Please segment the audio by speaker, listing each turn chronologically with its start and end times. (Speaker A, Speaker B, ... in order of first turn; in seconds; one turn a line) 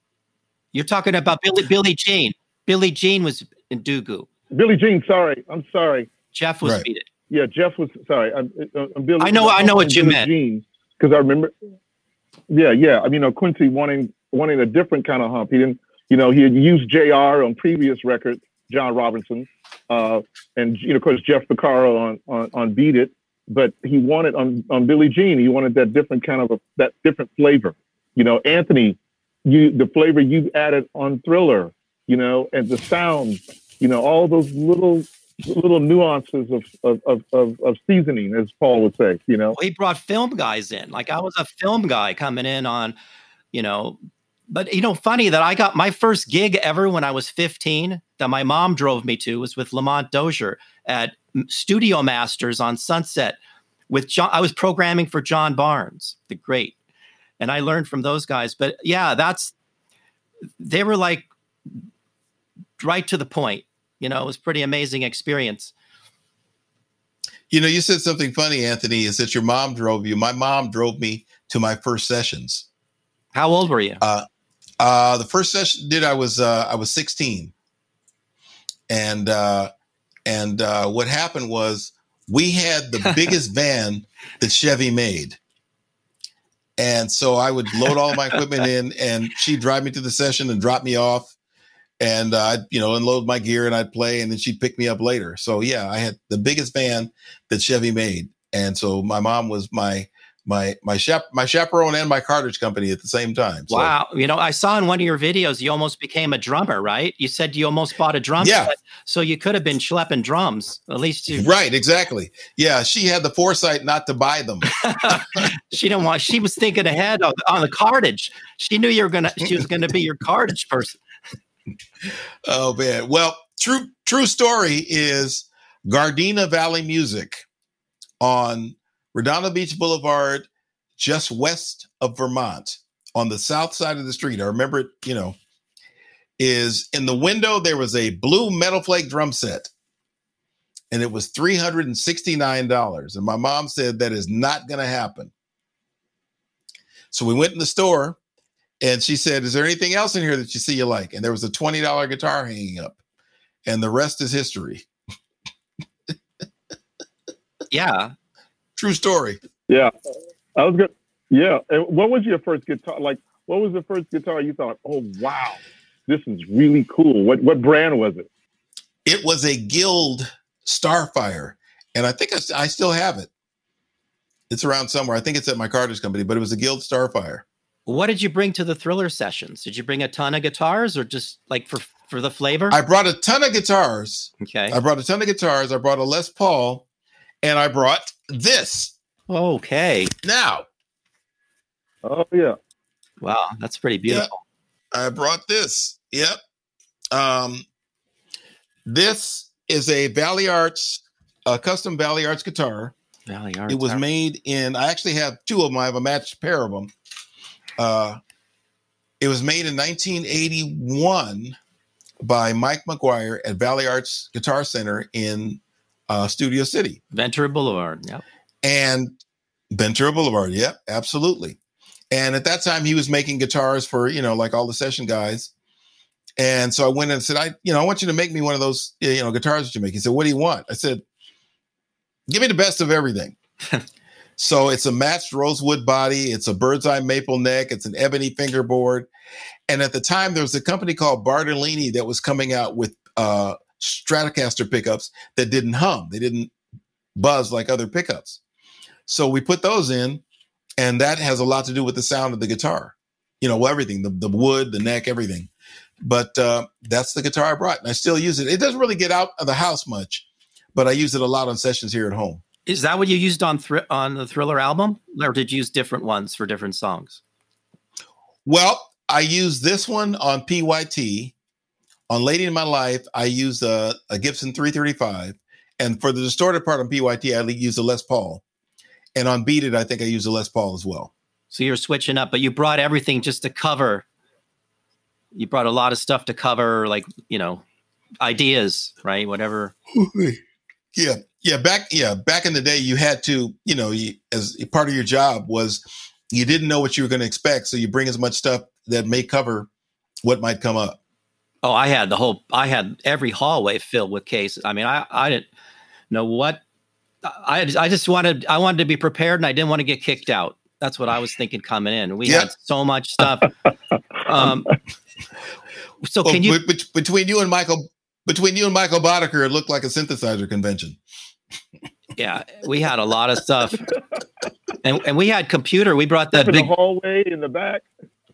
Speaker A: 0.7-4.3
Speaker B: 4.5-6.1
Speaker A: 6.3-7.1
Speaker B: 7.3-11.5
Speaker A: 9.2-10.3
Speaker B: 12.5-39.5
Speaker A: 39.5-43.0
Speaker A: 43.5-53.4
Speaker A: 53.9-56.8
Speaker A: 57.4-59.5
Speaker A: 60.6-61.3
Speaker A: 62.8-65.7
Speaker C: 67.5-72.7
Speaker A: 73.3-74.0
Speaker C: 74.0-74.3
Speaker C: 74.8-77.5
Speaker C: 78.9-79.7
Speaker C: 80.3-85.4
Speaker C: 86.8-91.3
Speaker C: 92.0-103.9
Speaker A: 103.7-111.5
Speaker C: 108.4-108.7
Speaker C: 111.3-114.7
Speaker A: 114.8-121.0
Speaker C: 122.5-127.4
Speaker C: 128.2-135.4
Speaker C: 136.4-139.7
Speaker C: 140.9-145.3
Speaker C: 147.1-148.2
Speaker C: 148.8-153.0
Speaker C: 153.7-154.9
Speaker A: 157.7-158.1
Speaker C: 158.8-159.4
Speaker B: 160.6-168.3
Speaker C: 169.1-173.3
Speaker C: 174.5-177.4
Speaker A: 177.9-182.8
Speaker C: 182.7-186.8
Speaker A: 184.4-184.8
Speaker C: 187.4-188.9
Speaker A: 189.3-190.1
Speaker C: 190.2-190.7
Speaker B: 192.0-192.6
Speaker A: 193.2-194.4
Speaker C: 194.9-196.4
Speaker C: 197.1-197.7
Speaker C: 198.9-202.9
Speaker A: 203.3-204.0
Speaker C: 203.7-206.9
Speaker C: 207.8-208.2
Speaker C: 209.2-211.6
Speaker C: 212.2-217.0
Speaker A: 217.1-218.2
Speaker C: 218.6-219.2
Speaker C: 219.7-221.6
Speaker C: 222.1-225.5
Speaker C: 226.4-231.0
Speaker C: 232.3-233.4
Speaker C: 234.4-239.1
Speaker C: 239.7-246.5
Speaker C: 247.2-248.4
Speaker C: 249.1-250.2
Speaker C: 250.8-255.5
Speaker C: 256.0-262.4
Speaker A: 262.7-267.2
Speaker C: 268.5-271.4
Speaker C: 272.1-278.4
Speaker C: 279.1-281.1
Speaker A: 281.5-284.1
Speaker A: 285.3-287.6
Speaker A: 288.2-289.7
Speaker C: 289.9-290.4
Speaker C: 291.0-299.7
Speaker C: 300.2-301.0
Speaker A: 301.6-305.5
Speaker A: 306.1-306.6
Speaker A: 307.2-313.5
Speaker A: 314.3-314.8
Speaker A: 316.0-316.6
Speaker C: 316.2-321.0
Speaker A: 322.2-323.9
Speaker A: 324.8-326.7
Speaker B: 326.3-327.9